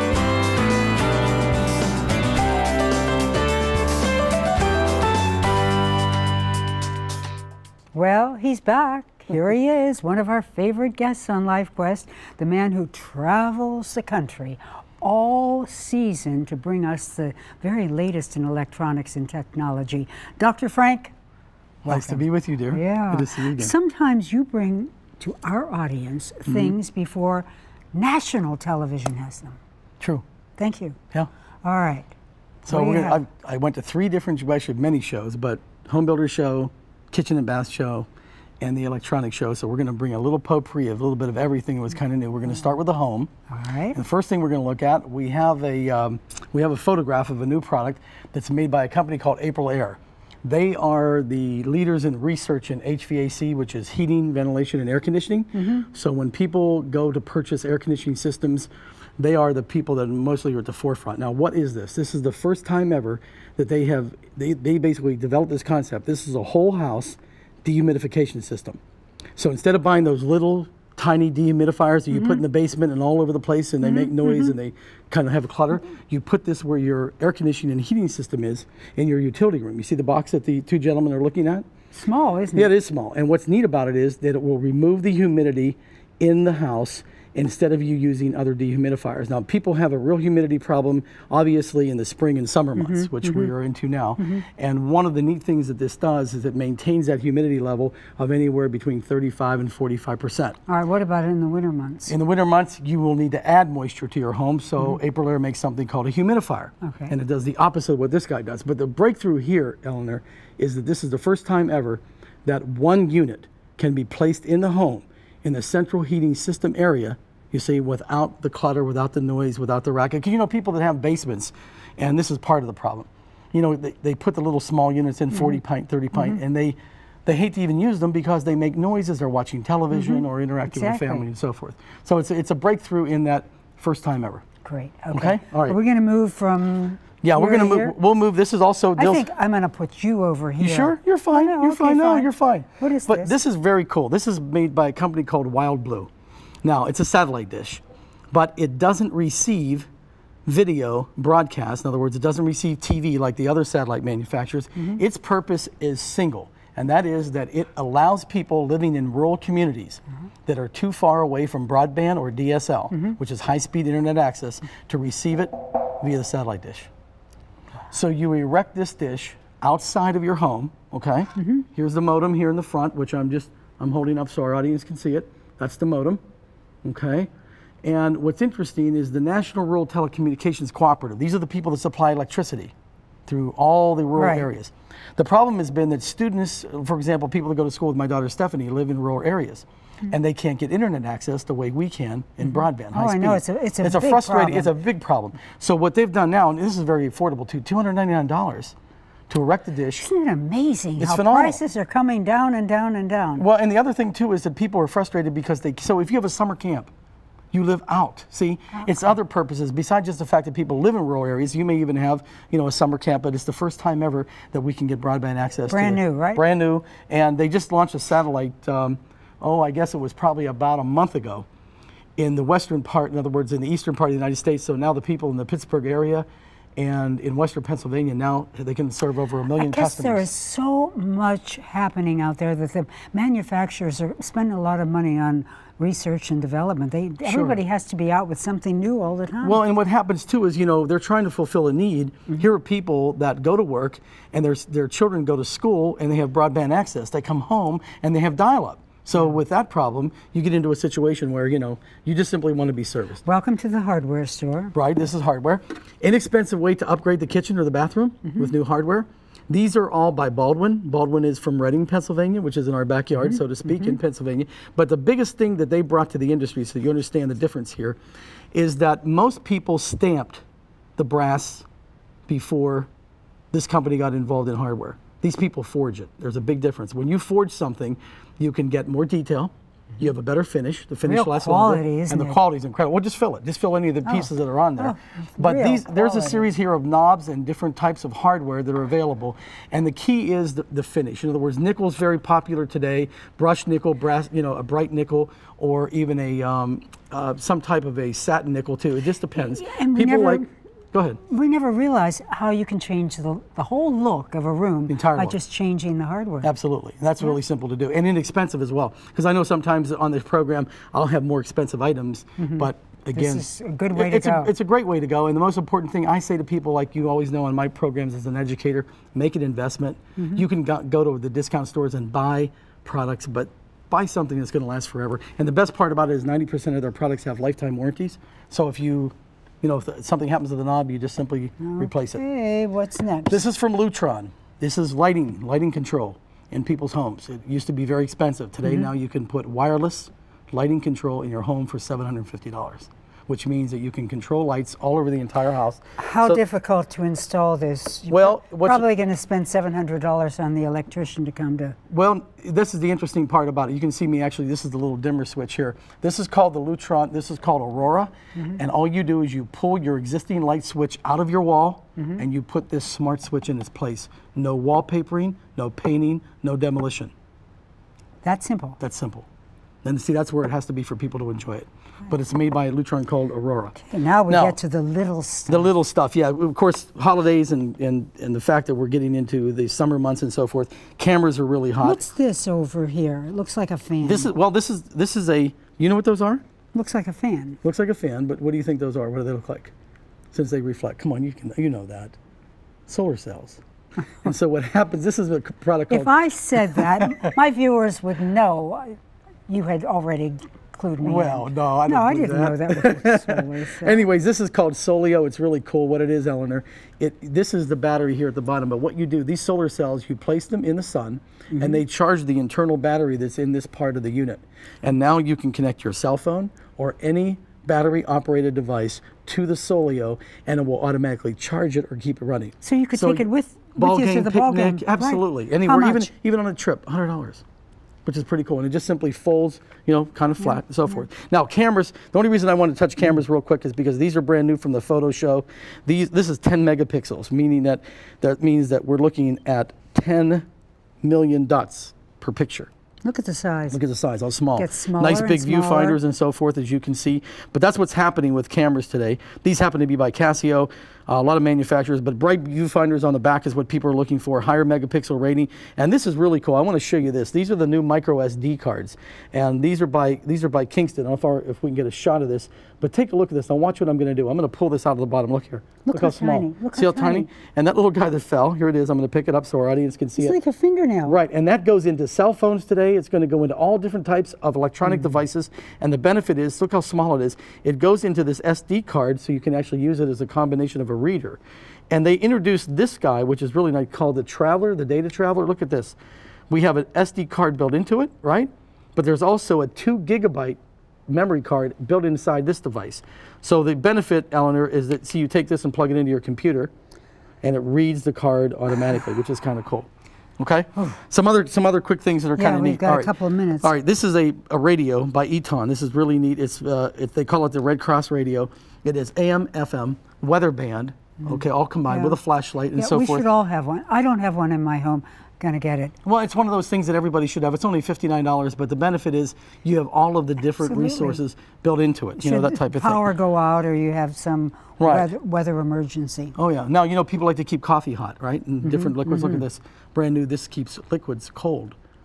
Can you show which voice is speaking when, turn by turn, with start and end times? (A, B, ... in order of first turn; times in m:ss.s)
0:07.9-0:21.1 A
0:21.8-0:29.6 A
0:21.9-0:23.7 B
0:26.5-0:26.7 B
0:30.0-0:30.2 B
0:30.6-0:31.0 A
0:31.6-0:32.1 A
0:32.7-0:38.1 B
0:32.7-0:33.2 A
0:38.6-0:43.3 B
0:43.5-0:44.0 A
0:43.9-1:08.8 B
0:55.6-0:55.8 A
1:09.4-1:21.7 B
1:12.1-1:12.4 A
1:13.8-1:14.5 A
1:21.9-1:22.7 A
1:22.6-1:40.6 B
1:32.8-1:33.5 A
1:34.2-1:34.4 A
1:40.7-1:42.1 A
1:42.1-2:14.4 B
1:46.8-1:47.2 A
2:05.3-2:05.6 A
2:06.1-2:06.4 A
2:09.9-2:11.2 A
2:14.6-2:17.9 A
2:15.1-2:15.8 B
2:17.2-2:19.3 B
2:19.0-2:23.3 A
2:20.6-2:26.1 B
2:26.6-2:29.9 B
2:30.5-2:46.9 B
2:42.9-2:43.2 A
2:47.9-2:56.2 B
2:51.4-2:51.7 A
2:56.8-2:57.3 B
2:57.8-3:02.7 B
3:03.3-3:18.8 B
3:04.2-3:04.5 A
3:12.4-3:14.7 A
3:19.3-3:20.1 B
3:20.0-3:23.4 A
3:21.0-3:21.6 B
3:23.4-3:26.9 B
3:27.5-3:41.5 B
3:35.7-3:36.4 A
3:42.2-3:50.3 B
3:49.6-3:59.6 A
3:57.2-3:57.6 B
3:59.4-4:13.2 B
4:13.2-4:14.8 A
4:14.7-4:28.0 B
4:23.2-4:24.0 A
4:28.5-4:30.4 B
4:31.0-4:31.7 B
4:32.3-4:32.9 B
4:33.5-5:01.2 B
4:41.1-4:42.4 A
4:44.1-4:46.5 A
4:59.4-5:00.5 A
5:01.3-5:06.5 A
5:04.9-5:05.4 B
5:06.4-5:32.2 B
5:12.4-5:14.5 A
5:20.2-5:20.4 A
5:31.6-5:33.4 A
5:33.3-5:46.4 B
5:46.0-5:51.8 A
5:48.1-5:48.9 B
5:51.9-6:07.1 B
6:02.0-6:02.2 A
6:08.2-6:08.8 A
6:08.8-6:09.3 B
6:09.8-6:14.6 B
6:13.9-6:15.7 A
6:15.5-6:22.1 B
6:21.8-6:24.3 A
6:24.0-6:26.4 B
6:26.8-6:27.6 A
6:27.6-6:29.7 B
6:30.3-6:32.2 B
6:32.9-6:33.6 B
6:34.2-6:36.1 B
6:35.9-6:44.0 A
6:36.7-6:37.1 B
6:41.0-7:07.4 B
6:51.5-6:51.8 A
7:02.6-7:06.1 A
7:08.0-7:20.5 B
7:10.4-7:11.0 A
7:21.0-7:22.7 B
7:23.0-7:23.8 A
7:23.7-7:50.4 B
7:24.6-7:26.0 A
7:45.8-7:47.3 A
7:50.2-7:51.2 A
7:51.0-8:06.0 B
8:06.5-8:16.7 B
8:17.4-8:19.9 B
8:20.4-8:33.3 B
8:22.4-8:23.7 A
8:31.9-8:32.2 A
8:32.8-8:36.0 A
8:36.0-8:43.1 B
8:40.6-8:41.2 A
8:42.2-8:46.4 A
8:44.8-8:45.1 B
8:46.4-8:51.8 B
8:48.6-8:49.4 A